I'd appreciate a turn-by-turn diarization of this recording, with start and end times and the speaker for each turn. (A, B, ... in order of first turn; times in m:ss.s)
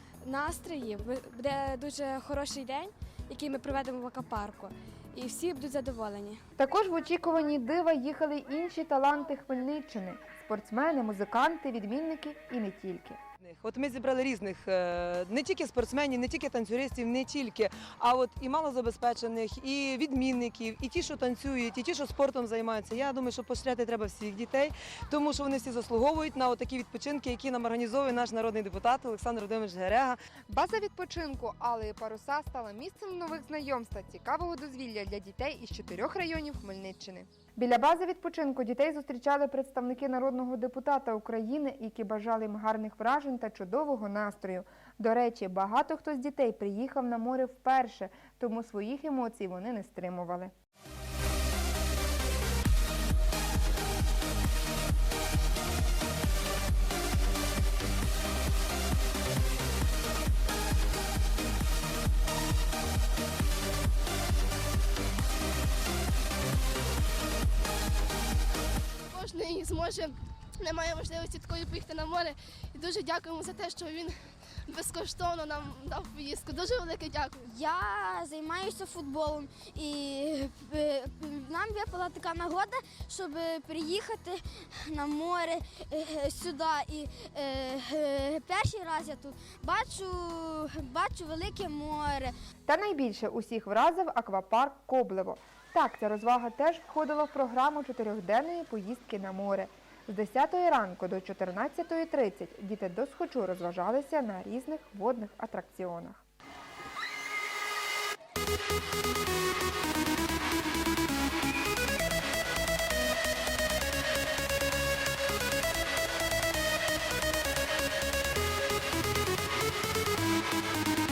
0:00.2-0:06.4 A
0:06.6-0:13.2 B
0:13.4-0:30.2 C
0:30.5-0:50.5 B
1:09.1-1:14.1 D
1:14.7-1:17.4 D
1:17.4-1:32.3 E
1:32.7-1:46.2 B